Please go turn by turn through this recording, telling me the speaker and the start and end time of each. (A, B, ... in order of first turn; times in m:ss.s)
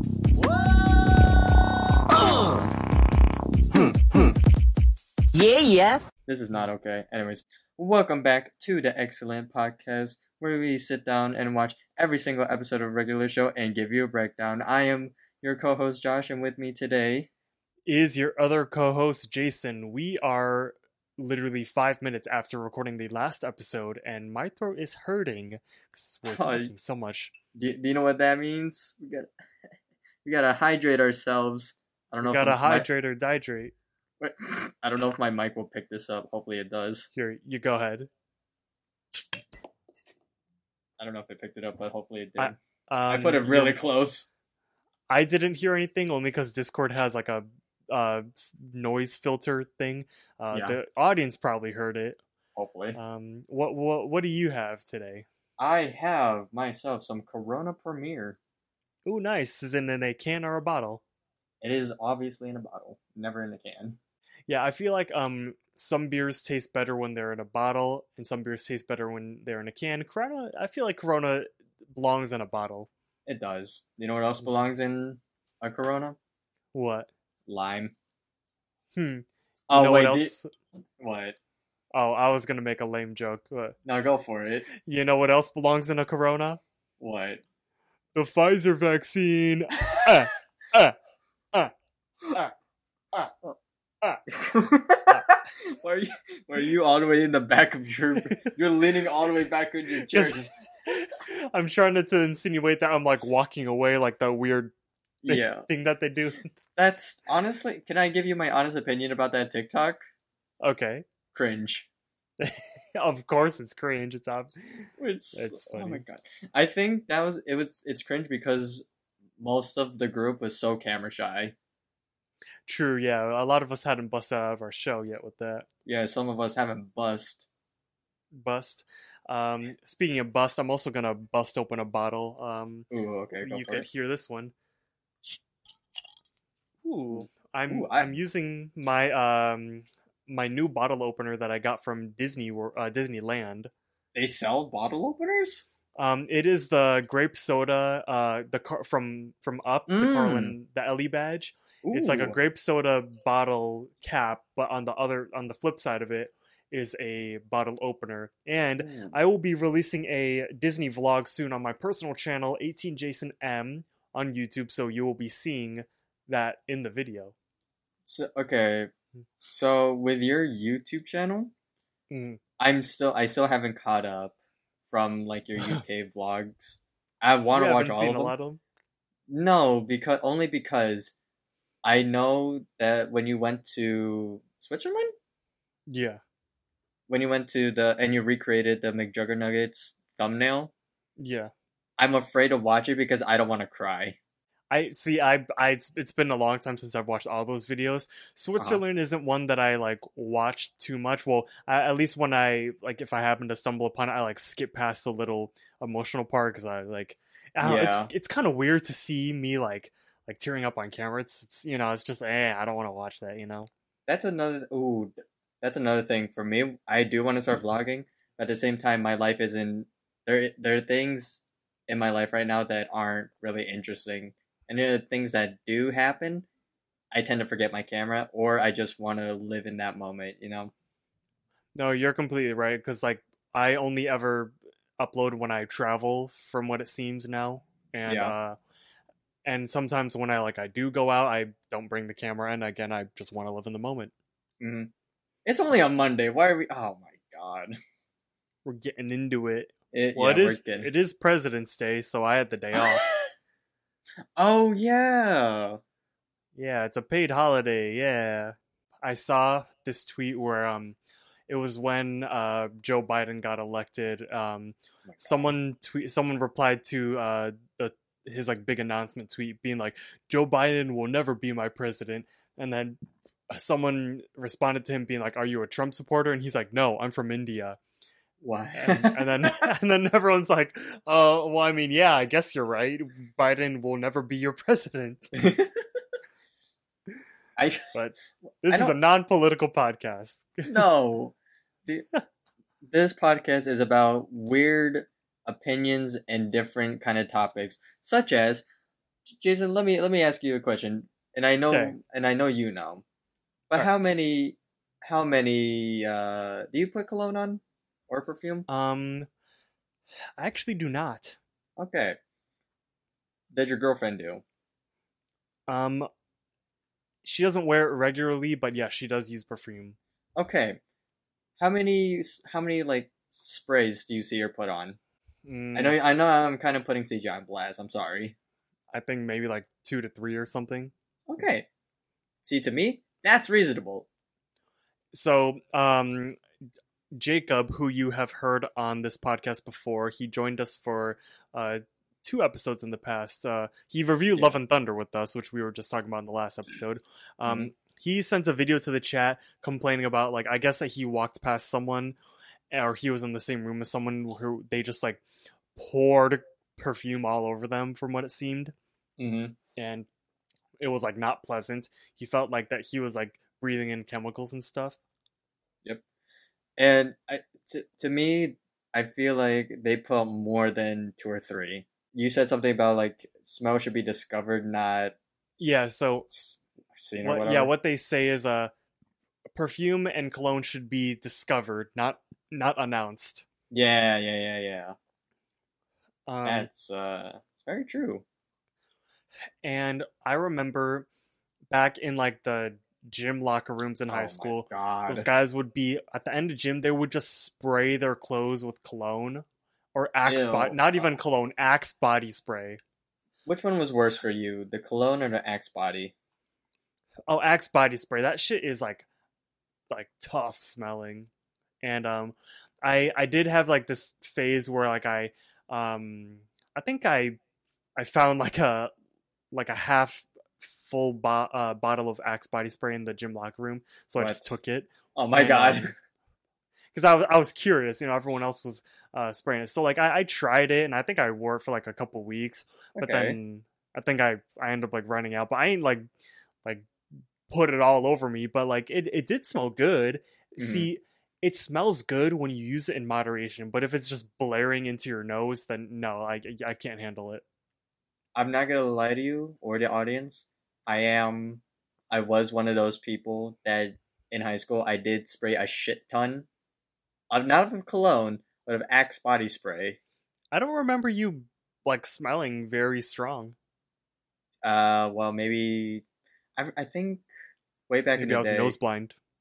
0:00.4-0:01.3 A
0:02.1-0:02.6 A
0:03.7-0:04.3 A
0:05.3-0:06.0 A
0:06.3-0:17.3 B
0:17.8-0:27.3 C
0:26.2-0:26.7 B
0:27.5-0:29.3 B
0:30.2-0:32.8 B
0:32.2-0:33.7 C
0:34.2-0:37.1 B
0:37.2-0:38.1 C
0:41.0-0:42.5 B
0:42.4-0:43.8 C
0:43.1-0:44.3 B
0:45.1-0:52.2 C
0:52.6-0:53.0 B
0:52.9-0:55.3 C
0:55.6-0:58.4 B
0:59.0-1:01.0 C
1:01.6-1:04.0 B
1:04.5-1:12.9 C
1:13.2-1:16.2 B
1:16.7-1:17.1 C
1:17.5-1:17.9 B
1:19.0-1:20.5 C
1:19.7-1:20.3 B
1:21.0-1:21.4 B
1:21.9-1:23.8 C
1:23.8-1:24.7 B
1:24.8-1:26.6 C
1:27.0-1:27.4 B
1:28.1-1:30.9 C
1:32.3-1:32.5 C
1:34.3-1:40.5 B
1:40.0-1:44.7 C
1:45.2-1:45.7 B
1:45.3-1:46.5 C
1:46.8-1:50.0 B
1:50.6-1:51.0 C
1:51.3-1:51.9 B
1:52.4-1:56.0 C
1:55.0-1:58.9 B
1:59.4-2:01.5 B
2:02.6-2:05.7 C
2:05.8-2:07.5 B
2:08.3-2:14.5 C
2:12.9-2:13.8 B
2:16.8-2:23.7 C
2:17.7-2:18.1 B
2:24.1-2:25.7 B
2:26.0-2:47.3 C
2:29.9-2:30.5 B
2:31.8-2:32.4 B
2:38.8-2:39.1 B
2:48.0-2:48.9 B
2:49.4-2:51.5 B
2:52.1-2:52.4 C
2:52.6-2:58.3 B
2:57.5-2:58.6 C
2:59.3-3:01.2 B
3:01.8-3:05.1 B
3:05.9-3:06.2 C
3:07.1-3:10.7 B
3:11.2-3:11.5 C
3:12.0-3:14.2 B
3:14.7-3:33.7 C
3:27.6-3:28.1 B
3:34.1-3:46.4 B
3:47.1-3:50.7 B
3:51.8-3:58.6 C
3:58.1-3:58.3 B
3:59.4-4:04.1 C
4:04.6-4:04.9 B
4:05.4-4:07.8 B
4:08.6-4:13.0 C
4:09.9-4:10.9 B
4:12.8-4:13.3 B
4:14.4-4:15.8 B
4:16.6-4:21.0 C
4:21.5-4:33.0 C
4:25.0-4:25.5 B
4:33.5-4:37.8 C
4:38.4-4:39.6 B
4:38.8-4:45.4 C
4:45.4-4:45.7 B
4:47.6-4:47.9 B
4:47.9-4:50.8 C
4:48.7-4:48.9 B
4:50.6-4:51.4 B
4:52.8-4:58.6 B
4:59.2-5:03.0 B
5:01.7-5:02.0 C
5:03.7-5:08.7 B
5:08.7-5:09.3 C
5:10.4-5:11.4 C
5:11.8-5:12.2 B
5:13.5-5:14.4 B
5:15.7-5:16.1 C
5:17.2-5:20.0 C
5:20.4-5:20.8 B
5:21.6-5:25.0 B
5:25.4-5:26.0 C
5:25.7-5:28.4 B
5:28.9-5:30.9 C
5:31.3-5:31.7 B
5:32.4-5:34.0 B
5:35.1-5:36.4 C
5:37.1-5:52.2 C
5:47.4-5:47.7 B
5:52.7-5:55.2 C
5:55.8-5:58.7 C
5:59.2-5:59.6 B
5:59.8-6:00.1 C
6:00.8-6:05.0 C
6:06.8-6:15.2 B
6:15.6-6:16.3 C
6:16.3-6:17.7 B
6:17.2-6:18.7 C
6:19.5-6:23.4 C
6:23.7-6:25.0 B
6:26.3-6:26.7 C
6:26.4-6:28.2 B
6:29.6-6:31.1 C
6:31.7-6:42.8 C
6:34.1-6:35.3 B
6:40.2-6:41.1 B
6:43.4-6:46.1 B
6:47.3-6:49.1 C
6:49.9-6:51.3 C
6:51.8-6:57.4 C
6:58.0-6:58.9 C
6:59.5-7:05.9 C
7:04.2-7:04.6 B
7:05.2-7:05.9 B
7:06.9-7:16.0 C
7:13.0-7:13.4 B
7:17.5-7:27.4 C
7:20.6-7:20.9 B
7:28.3-7:36.5 B
7:37.3-7:40.0 B
7:40.5-7:43.6 C
7:44.6-7:46.0 B
7:46.6-7:47.2 B
7:47.9-7:48.7 B
7:48.2-7:49.2 C